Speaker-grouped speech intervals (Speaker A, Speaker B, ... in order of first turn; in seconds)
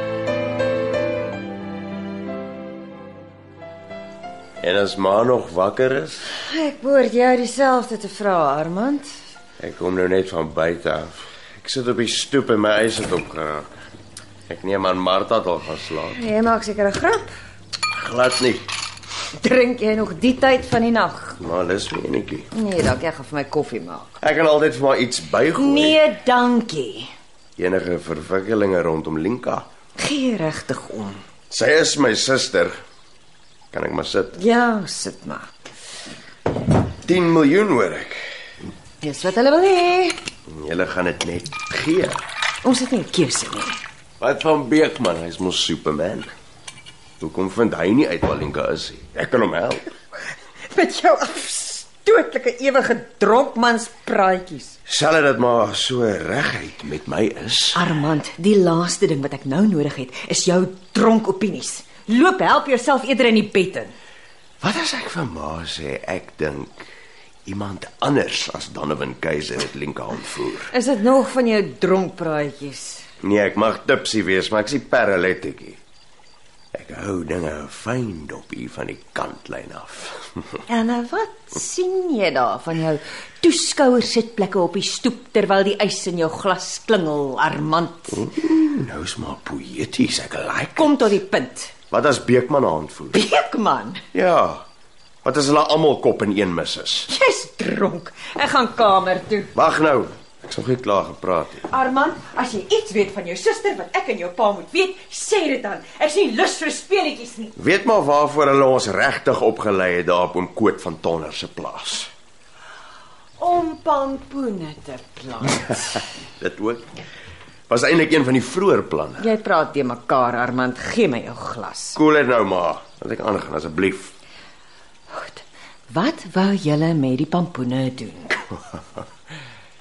Speaker A: 4.6-6.3, 9.6-13.8, 14.5-16.2, 17.9-18.7, 21.4-22.5, 24.2-26.0, 27.6-29.7, 31.5-32.8, 33.7-34.4, 37.0-38.2, 40.5-42.2, 44.2-46.3, 47.2-49.9, 54.9-57.9, 64.6-66.9, 67.5-70.7, 73.2-75.8, 76.7-80.6, 88.1-91.2, 91.9-93.2, 94.1-94.6, 95.2-97.1, 99.5-101.6, 107.6-112.1, 116.4-116.9, 117.7-119.3, 122.0-124.1
Speaker B: 6.4-9.1, 16.1-17.3, 19.4-21.4, 22.5-24.1, 25.6-27.1, 30.0-31.2, 34.3-35.5, 39.0-40.2, 42.6-43.8, 50.7-54.7, 57.8-64.0, 70.7-73.0, 80.7-88.2, 90.8-91.7, 93.1-94.0, 97.1-99.5, 101.7-107.5, 113.4-116.0, 119.2-122.0, 125.1-128.4